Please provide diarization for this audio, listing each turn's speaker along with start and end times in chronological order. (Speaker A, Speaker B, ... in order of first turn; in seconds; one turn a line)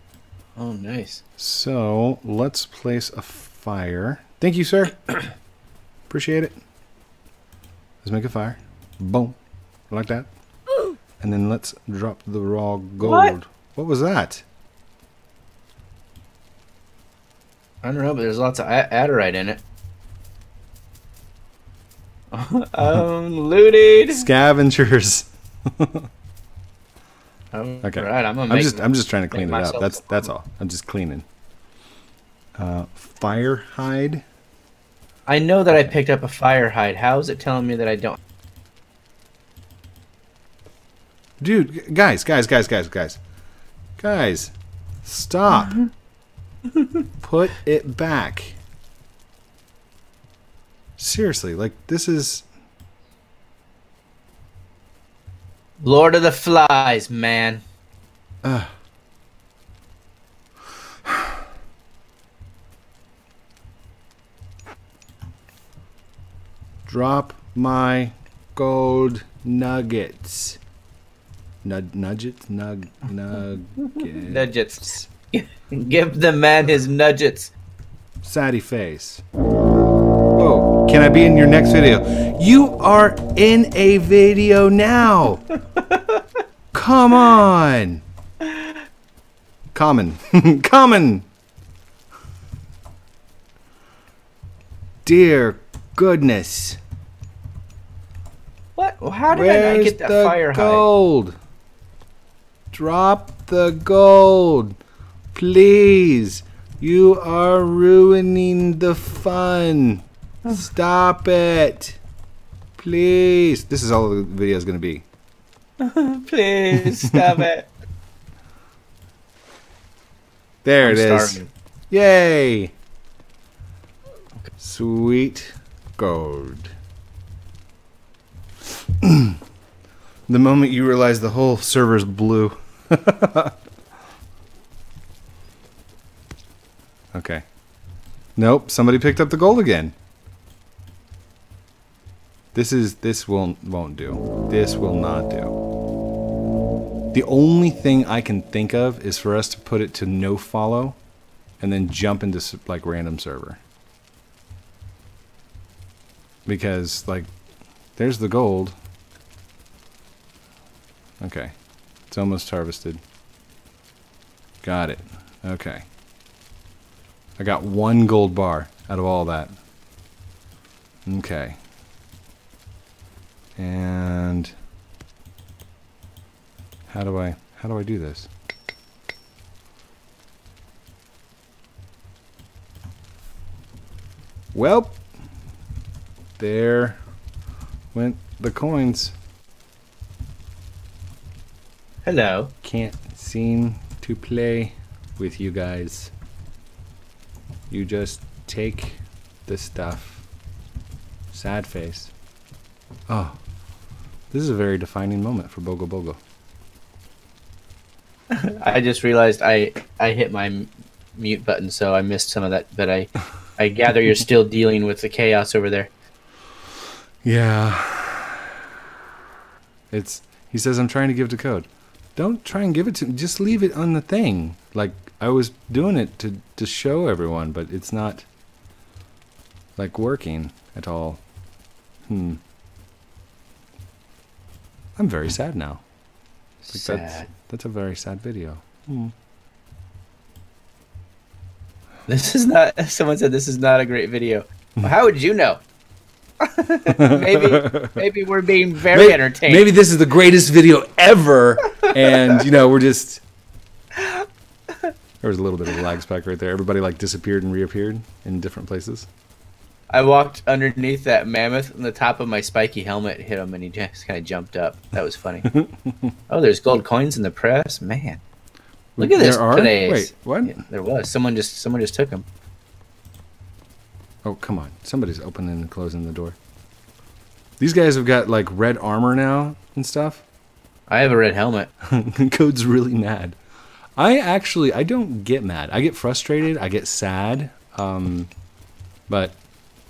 Speaker A: 0.6-1.2
Speaker B: 1.4-5.0
Speaker B: 6.1-6.6
Speaker B: 8.0-9.4
Speaker B: 9.9-10.3
Speaker B: 11.2-14.4
Speaker A: 13.0-13.3
Speaker A: 17.8-19.6
Speaker A: 22.3-24.2
Speaker B: 24.1-26.1
Speaker A: 27.5-30.3
Speaker B: 27.8-31.2
Speaker B: 32.5-34.2
Speaker A: 35.3-38.2
Speaker B: 41.4-43.2
Speaker B: 44.0-45.8
Speaker B: 47.2-48.6
Speaker B: 51.0-52.5
Speaker A: 55.8-57.6
Speaker B: 58.4-58.7
Speaker B: 66.8-70.6
Speaker B: 71.6-75.0
Speaker A: 73.8-77.5
Speaker B: 78.2-79.2
Speaker B: 80.3-85.4
Speaker A: 85.8-86.2
Speaker B: 86.7-88.0
Speaker A: 88.4-88.7
Speaker B: 89.7-91.2
Speaker B: 95.0-96.8
Speaker A: 98.8-100.8
Speaker B: 99.3-101.4
Speaker B: 102.7-104.8
Speaker B: 105.3-112.0
Speaker B: 112.8-115.0
Speaker A: 115.8-117.7
Speaker B: 116.7-117.5
Speaker B: 120.6-122.7
Speaker A: 120.8-121.5
Speaker B: 124.6-126.7
Speaker B: 129.0-129.4
Speaker B: 130.3-133.6
Speaker B: 137.1-137.4
Speaker B: 138.3-139.9
Speaker B: 142.5-145.6
Speaker B: 147.1-151.0
Speaker B: 151.6-153.6
Speaker B: 156.4-157.3
Speaker B: 157.9-158.8
Speaker B: 161.2-161.6
Speaker B: 162.1-163.0
Speaker B: 164.6-165.8
Speaker B: 167.4-169.5
Speaker B: 171.1-171.6
Speaker B: 173.6-174.5
Speaker B: 176.9-178.3
Speaker B: 184.5-185.0
Speaker B: 186.4-187.0
Speaker B: 187.9-189.2
Speaker A: 192.0-192.5
Speaker B: 192.6-196.1
Speaker B: 197.7-200.2
Speaker B: 201.3-202.1
Speaker B: 203.1-203.4
Speaker B: 204.3-206.2
Speaker A: 208.3-215.9
Speaker B: 217.2-218.5
Speaker B: 219.9-228.3
Speaker B: 229.8-231.2
Speaker B: 232.1-232.4
Speaker B: 234.9-235.8
Speaker A: 236.6-237.3
Speaker B: 236.7-239.1
Speaker A: 242.1-245.6
Speaker A: 246.4-249.7
Speaker B: 246.9-248.0
Speaker B: 248.9-253.2
Speaker A: 253.9-254.9
Speaker B: 255.2-259.1
Speaker A: 259.9-265.5
Speaker B: 265.5-266.1
Speaker A: 266.3-268.2
Speaker B: 268.9-270.6
Speaker A: 269.0-272.2
Speaker B: 274.2-276.4
Speaker B: 277.6-280.2
Speaker A: 280.9-281.7
Speaker B: 281.8-283.4
Speaker B: 283.9-288.3
Speaker B: 289.1-289.4